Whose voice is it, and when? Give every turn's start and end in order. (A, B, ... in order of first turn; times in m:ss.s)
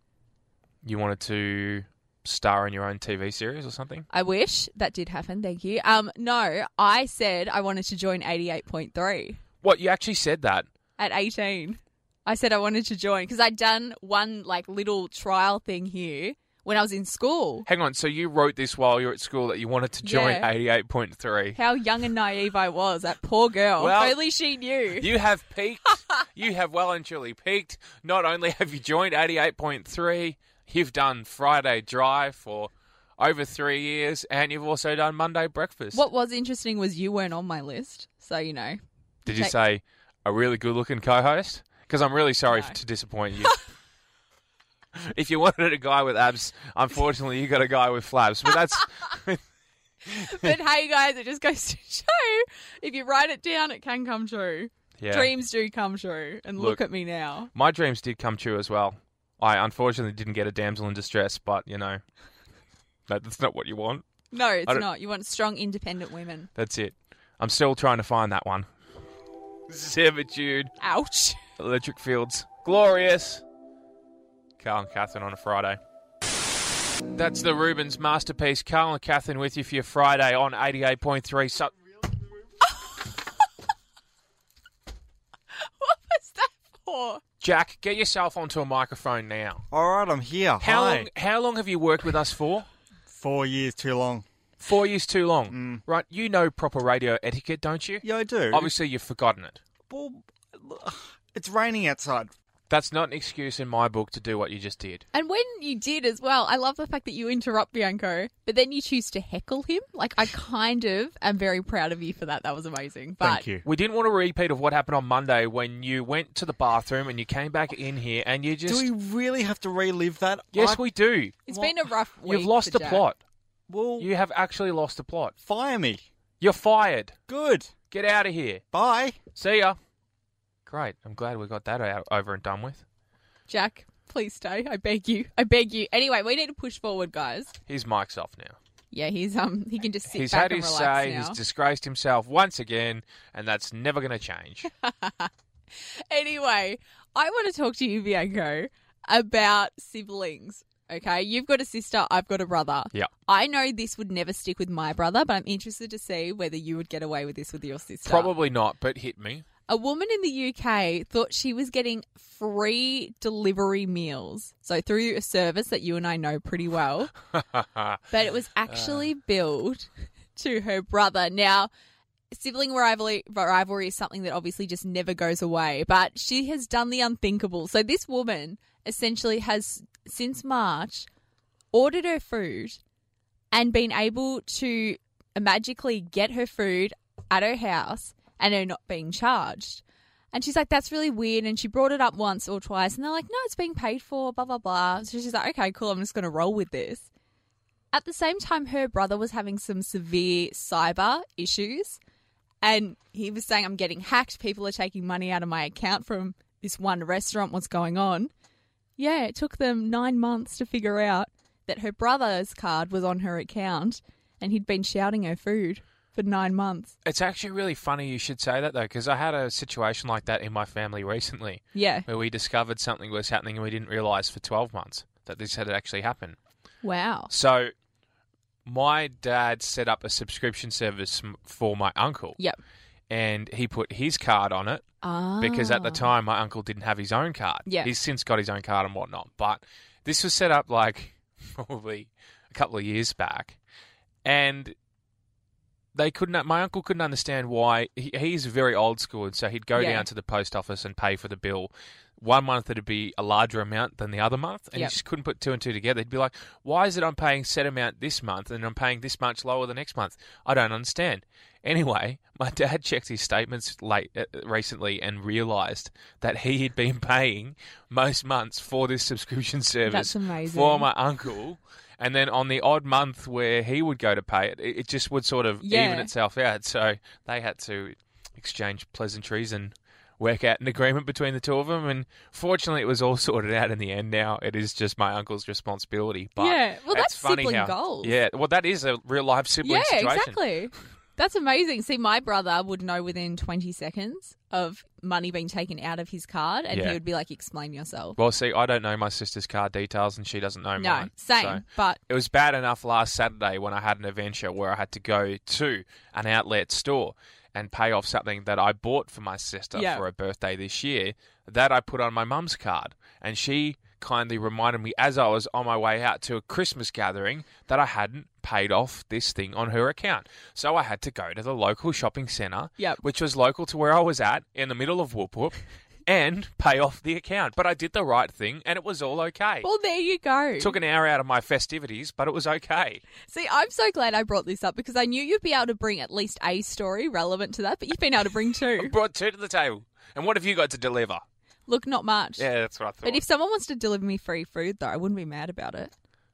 0:00.8-0:04.1 A
0:04.1-0:09.4 B
0:09.6-0:10.7 A
0:11.0-0:17.7 B
0:17.7-0:21.6 A
0:20.0-0:20.5 B
0:21.6-0:25.1 B
0:23.8-0:24.2 A
0:25.0-0:36.0 A
0:35.9-0:39.6 B
0:39.3-0:43.6 A
0:44.9-0:49.4 A
0:50.1-0:57.5 B
0:55.0-0:55.3 A
0:57.5-1:02.0 A
1:03.1-1:04.0 A
1:04.3-1:06.5 B
1:06.6-1:08.7 A
1:09.7-1:10.7 A
1:10.8-1:11.4 B
1:11.6-1:13.4 A
1:14.6-1:15.8 A
1:17.1-1:21.7 A
1:25.6-1:27.2 B
1:27.4-1:29.6 A
1:29.7-1:31.1 C
1:30.6-1:32.7 A
1:33.1-1:34.2 C
1:34.6-1:39.6 A
1:35.5-1:35.8 C
1:38.0-1:38.7 C
1:39.9-1:42.3 C
1:42.7-1:45.0 A
1:45.1-1:53.5 B
1:53.2-1:53.6 C
1:53.6-1:58.9 A
1:58.7-2:00.8 C
2:00.5-2:01.5 A
2:01.5-2:03.0 B
2:02.2-2:03.2 A
2:03.7-2:04.1 C
2:04.0-2:05.3 A
2:05.4-2:06.0 C
2:06.4-2:07.2 A
2:07.3-2:07.7 C
2:07.9-2:08.6 A
2:08.7-2:09.2 C
2:09.4-2:09.8 A
2:10.7-2:12.8 A
2:13.5-2:17.6 B
2:17.7-2:18.6 A
2:18.9-2:21.4 B
2:20.1-2:24.7 A
2:24.7-2:38.3 B
2:38.0-2:39.5 A
2:39.7-2:47.1 B
2:47.4-2:48.0 A
2:48.1-2:51.7 B
2:48.7-2:49.0 A
2:52.3-3:01.1 B
3:01.7-3:02.8 B
3:03.5-3:17.1 B
3:17.9-3:22.0 B
3:22.6-3:28.3 B
3:29.0-3:36.9 B
3:37.0-3:46.4 A
3:41.7-3:42.1 B
3:46.8-3:47.3 B
3:47.3-3:47.7 A
3:48.6-3:52.4 A
3:53.1-3:54.8 A
3:55.0-3:56.1 B
3:55.4-4:03.6 A
3:57.7-3:57.9 B
4:04.2-4:04.8 A
4:05.9-4:50.4 A
4:09.7-4:10.1 B
4:29.9-4:30.9 B
4:35.6-4:36.1 B
4:46.4-4:48.2 B
4:49.6-4:58.2 B
4:56.7-4:57.0 A
4:58.2-5:29.7 A
5:00.8-5:02.0 B
5:09.7-5:10.0 B
5:29.6-5:30.7 B
5:30.6-5:33.0 A
5:33.3-5:39.0 B
5:38.8-5:41.2 A
5:41.7-5:42.5 B
5:42.4-5:43.2 A
5:43.0-5:45.9 B